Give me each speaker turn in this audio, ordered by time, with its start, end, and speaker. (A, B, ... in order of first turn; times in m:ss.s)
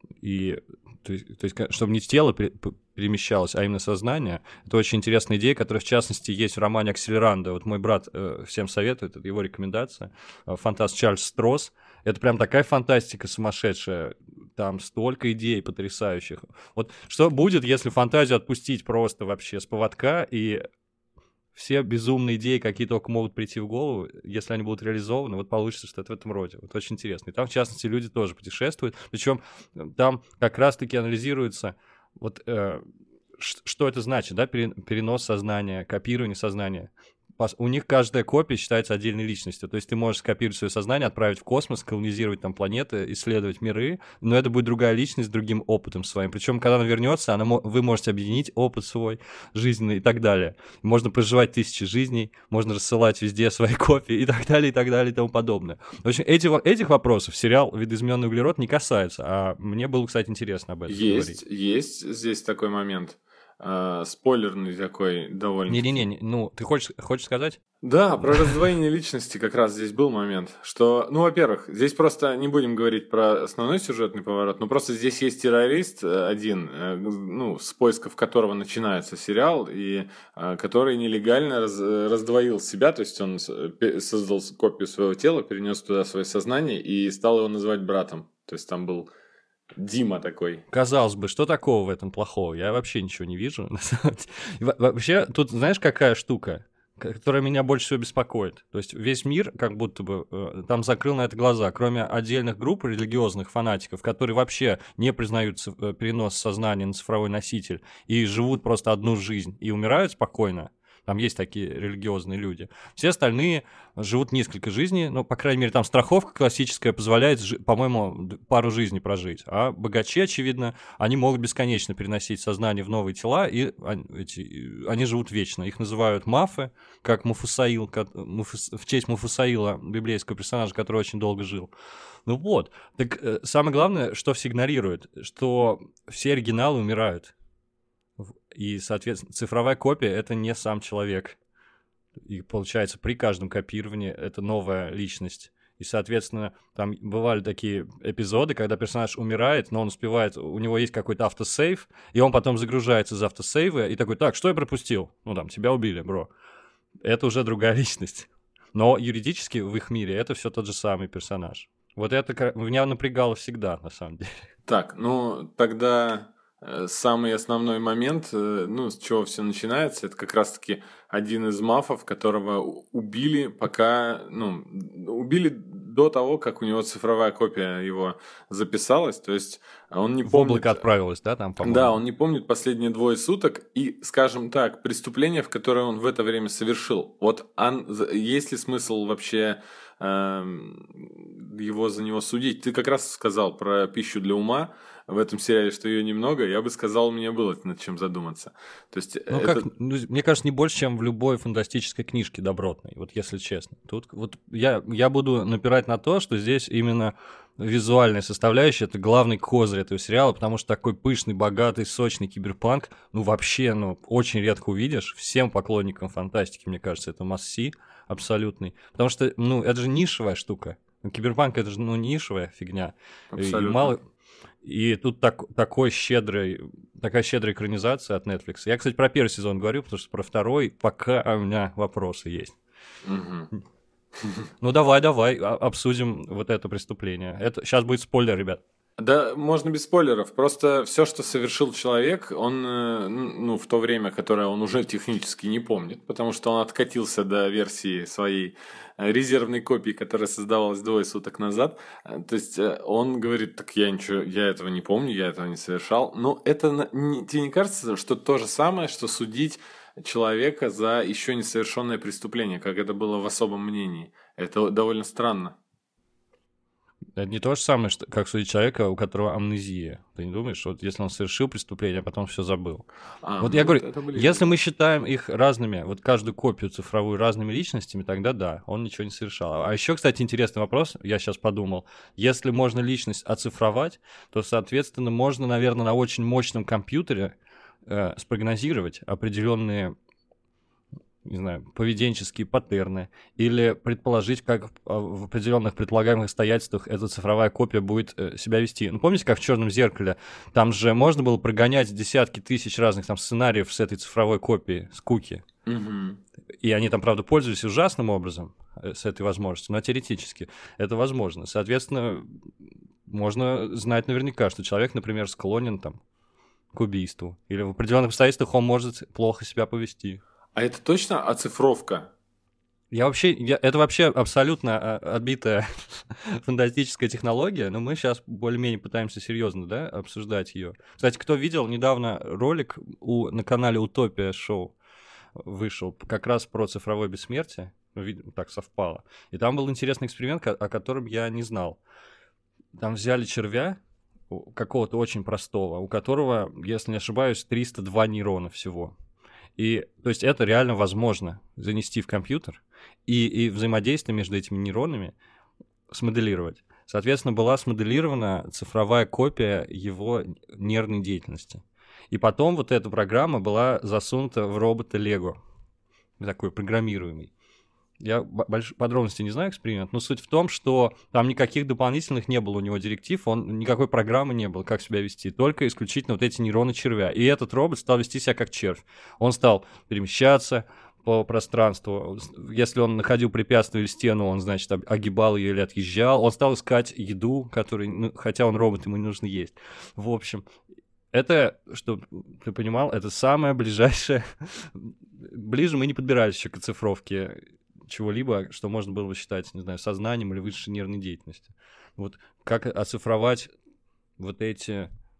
0:00.2-0:20.6 A
0:21.5-0:32.8 A
0:33.4-1:01.4 A
1:00.9-1:06.0 B
1:05.7-1:07.6 A
1:07.8-1:29.1 B
1:29.8-1:30.6 B
1:30.7-2:11.7 A
2:12.3-2:17.3 A
2:18.2-2:21.4 A
2:22.2-2:36.3 A
2:37.0-2:44.3 A
2:44.7-3:00.8 B
3:00.2-3:02.0 A
3:01.6-3:19.7 B
3:19.3-3:44.0 A
3:43.3-3:44.0 B
3:44.6-3:52.6 A
3:53.0-3:53.5 B
3:54.6-3:58.6 A
3:59.0-4:25.6 B
4:27.2-4:32.8 A
4:33.2-4:34.5 B
4:33.4-4:47.4 A
4:47.9-4:49.9 A
4:51.2-5:05.4 A
5:05.7-5:06.2 B
5:06.6-5:12.3 A
5:13.1-5:16.0 A
5:16.7-5:20.2 A
5:20.6-5:22.1 B
5:22.9-5:34.8 A
5:35.4-5:41.8 A
5:42.8-5:43.8 A
5:44.3-5:48.9 A
5:49.6-5:55.2 A
5:55.9-6:05.4 A
6:06.2-6:07.3 A
6:08.0-6:30.5 A
6:31.1-6:43.5 A
6:44.2-6:44.9 A